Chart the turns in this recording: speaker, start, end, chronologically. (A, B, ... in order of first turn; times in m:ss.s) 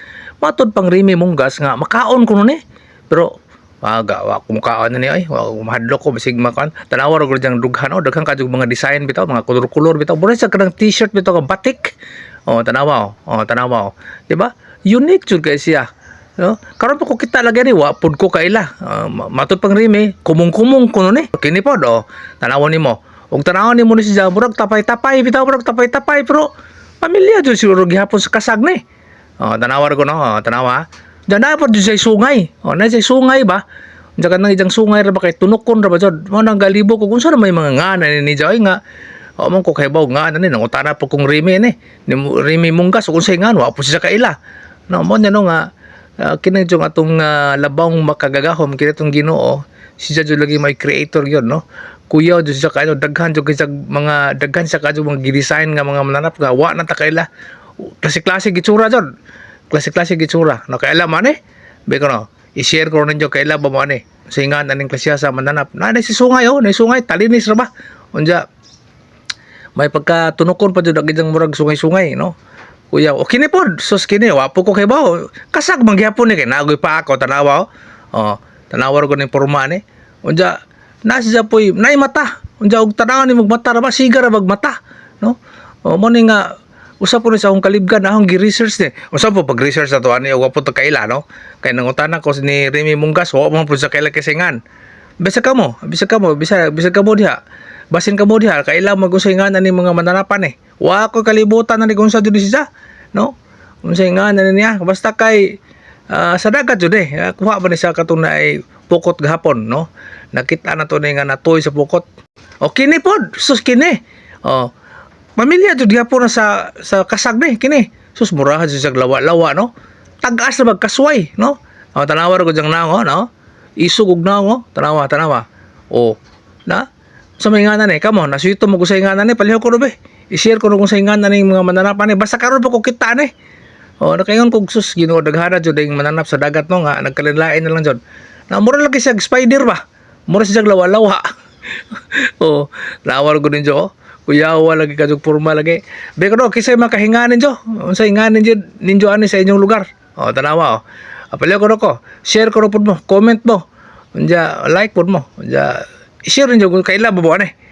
0:00.4-0:11.9 A
0:12.5-0:15.9 A
0:16.4-0:26.5 A
0:27.0-0:28.8 A
0:29.4-0:33.6 A
0:34.2-0:38.8 A
0:39.4-0:44.4 A
0:44.9-0:45.7 A
0:46.2-0:57.3 A
0:57.8-0:59.1 A
0:59.7-1:01.4 A
1:01.9-1:08.4 A
1:09.8-1:12.3 A
1:12.9-1:34.6 A
1:35.2-1:37.4 A
1:37.9-1:43.3 A
1:43.8-1:45.6 A
1:46.1-1:52.0 A
1:52.6-1:54.7 A
1:55.4-1:59.7 A
2:00.2-2:03.3 A
2:03.8-2:06.9 A
2:07.4-2:13.3 A
2:14.0-2:21.3 A
2:21.9-2:33.6 A
2:34.2-2:37.5 A